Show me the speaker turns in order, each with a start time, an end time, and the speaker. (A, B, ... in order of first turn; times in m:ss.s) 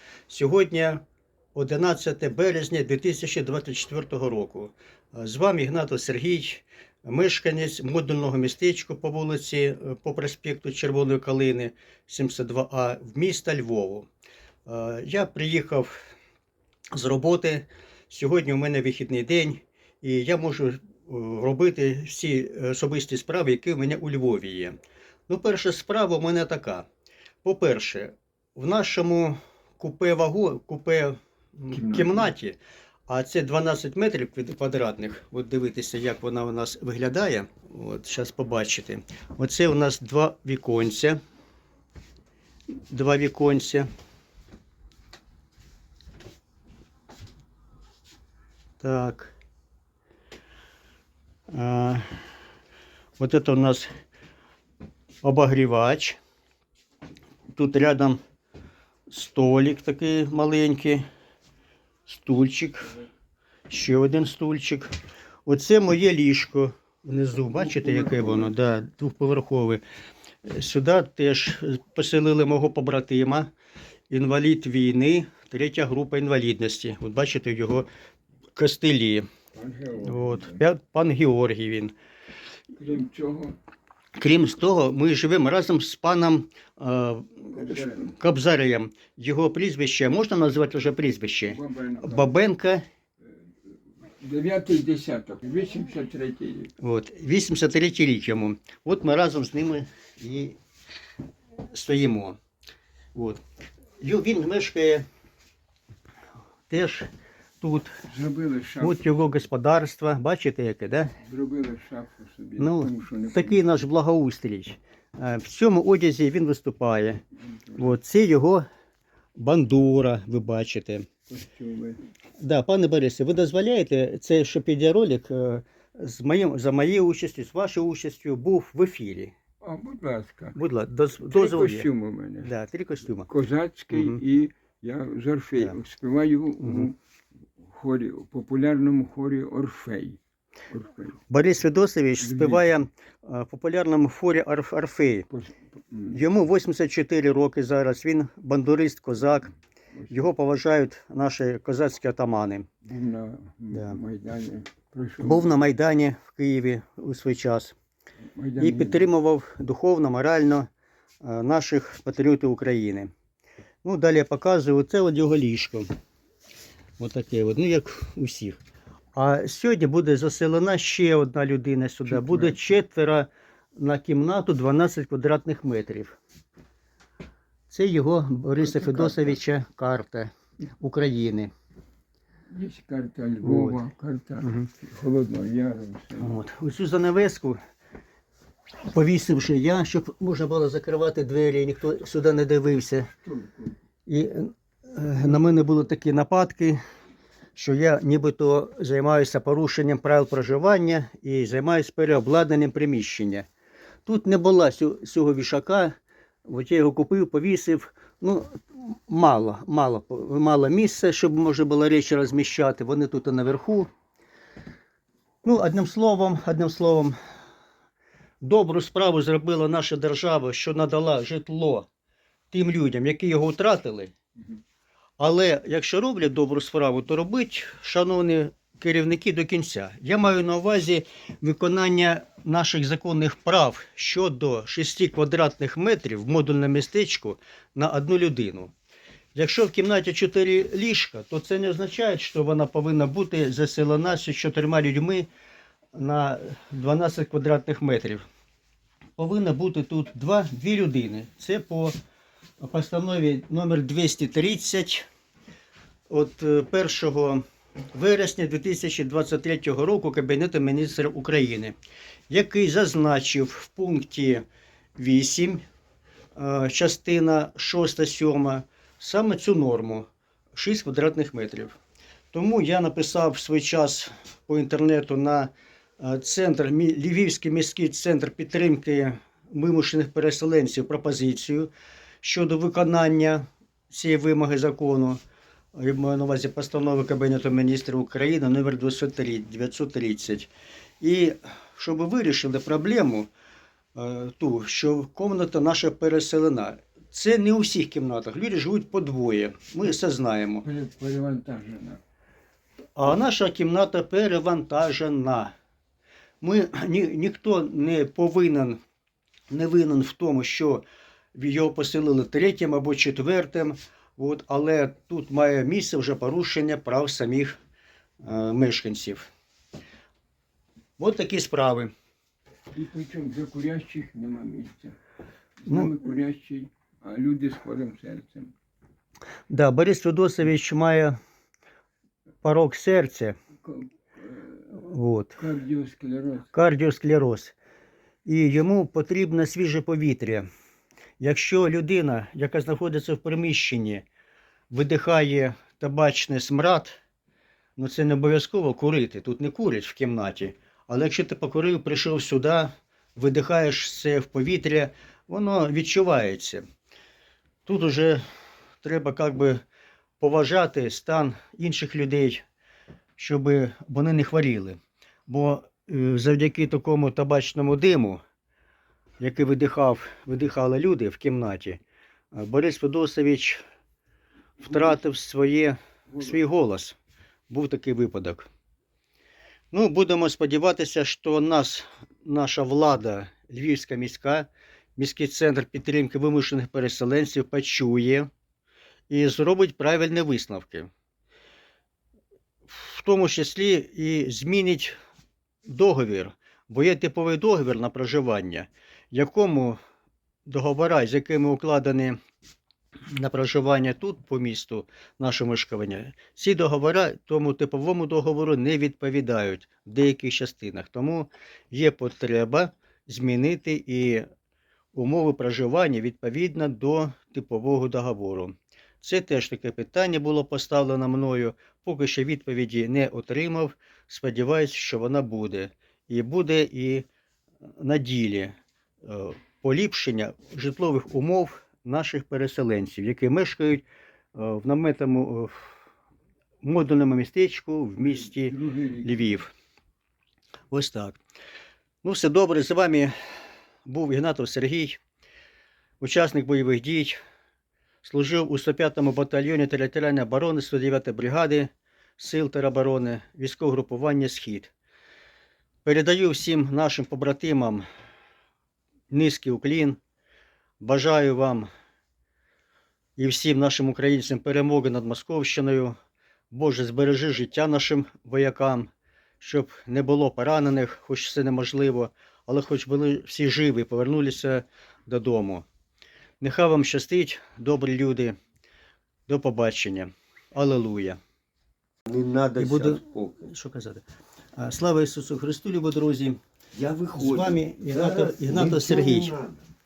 0:00.3-0:01.0 A
0:01.5-0:14.1 A
0:14.6-0:16.1 A
0:16.9-0:24.8 A
0:25.3-0:26.8 A
0:27.4-0:32.6 A
0:31.7-0:32.3 B
0:33.1-0:41.2 A
0:42.9-0:43.9 A
0:48.8-0:49.3 A
0:51.5-0:52.1 A
0:53.2-0:53.9 A
0:55.2-0:56.2 A
0:57.5-0:58.2 A
0:59.1-1:01.0 A
1:02.1-1:02.9 A
1:03.7-1:04.9 A
1:05.4-1:09.8 A
1:10.4-1:13.5 A
1:14.1-1:17.9 A
1:18.6-1:19.3 A
1:19.5-1:20.6 B
1:20.0-1:21.9 A
1:22.7-1:23.6 B
1:24.2-1:32.8 A
1:27.6-1:28.0 B
1:31.5-1:32.3 B
1:34.2-1:36.7 B
1:36.8-1:40.6 A
1:41.7-1:42.4 A
1:43.1-1:43.4 A
1:44.0-1:45.0 A
1:46.7-1:47.1 A
1:47.6-1:48.0 A
1:48.1-1:49.2 B
1:48.8-1:51.2 A
1:51.2-1:53.6 B
1:52.6-1:57.2 A
1:57.7-1:58.6 A
1:59.4-2:01.1 A
2:01.3-2:02.0 B
2:02.4-2:09.3 A
2:09.6-2:10.6 B
2:10.6-2:11.9 A
2:11.2-2:12.5 B
2:12.4-2:13.3 A
2:13.3-2:17.0 B
2:13.9-2:14.2 A
2:17.7-2:20.2 B
2:20.7-2:21.2 B
2:21.3-2:25.3 A
2:22.2-2:22.7 B
2:25.3-2:26.1 B
2:26.1-2:29.5 A
2:30.1-2:32.7 A
2:32.8-2:35.5 B
2:33.7-2:34.0 A
2:35.2-2:37.7 A
2:38.3-2:39.1 B
2:38.6-2:40.7 A
2:41.2-2:43.1 A
2:43.8-2:45.9 A
2:47.0-2:48.6 A
2:49.1-2:56.2 A
2:52.2-2:52.5 B
2:57.7-3:01.5 A
2:58.6-2:59.3 B
3:02.5-3:06.3 B
3:03.4-3:03.8 A
3:04.4-3:04.7 A
3:06.1-3:07.6 A
3:08.9-3:13.1 A
3:13.3-3:13.7 B
3:14.1-3:16.8 A
3:17.5-3:23.5 A
3:24.0-3:33.9 A
3:35.4-3:37.1 A
3:38.4-3:41.9 A
3:42.5-3:44.1 A
3:45.2-3:58.7 A
3:59.3-4:05.3 A
4:05.9-4:08.2 A
4:09.2-4:12.0 A
4:12.6-4:15.1 A
4:16.1-4:17.4 A
4:17.9-4:21.7 A
4:22.3-4:24.4 A
4:25.0-4:25.6 A
4:26.3-4:31.8 A
4:32.3-4:41.7 A
4:42.2-4:45.2 A
4:45.7-4:50.5 A
4:51.0-4:53.3 A
4:53.9-5:00.6 A
5:00.6-5:02.0 B
5:03.0-5:05.5 A
5:06.4-5:08.8 A
5:09.5-5:10.8 A
5:11.3-5:17.6 A
5:18.2-5:19.3 A
5:21.0-5:21.9 A
5:22.8-5:25.0 B
5:25.6-5:28.5 B
5:29.5-5:31.2 A
5:32.4-5:33.4 A
5:34.2-5:34.5 C
5:34.7-5:35.4 A
5:35.4-5:36.4 B
5:36.5-5:37.5 A
5:38.2-5:40.5 A
5:41.2-5:44.0 A
5:44.7-5:47.0 A
5:47.8-5:56.6 A
5:57.6-5:58.2 A
5:58.8-5:59.6 A
6:00.2-6:02.4 A
6:03.2-6:08.2 A
6:09.2-6:11.8 A
6:12.3-6:13.6 A
6:14.6-6:16.9 A
6:17.5-6:18.5 A
6:19.7-6:28.3 A
6:29.1-6:30.9 A
6:32.7-6:34.9 A
6:35.7-6:39.8 A
6:40.4-6:42.2 A
6:43.1-6:54.2 A
6:54.9-7:07.0 A
7:07.8-7:15.7 A
7:16.6-7:19.5 A
7:18.0-7:19.3 B
7:20.7-7:21.2 A
7:22.0-7:23.1 A
7:23.8-7:25.0 A
7:26.0-7:27.2 A
7:28.0-7:34.7 A
7:35.8-7:37.8 A
7:39.1-7:40.0 A
7:40.8-7:41.7 A
7:43.2-7:45.9 A
7:46.5-7:55.6 A
7:56.4-7:58.3 A
7:59.3-8:01.2 A
8:02.1-8:02.5 C
8:02.6-8:04.0 A
8:04.6-8:06.4 A
8:06.8-8:09.5 C
8:07.1-8:09.4 A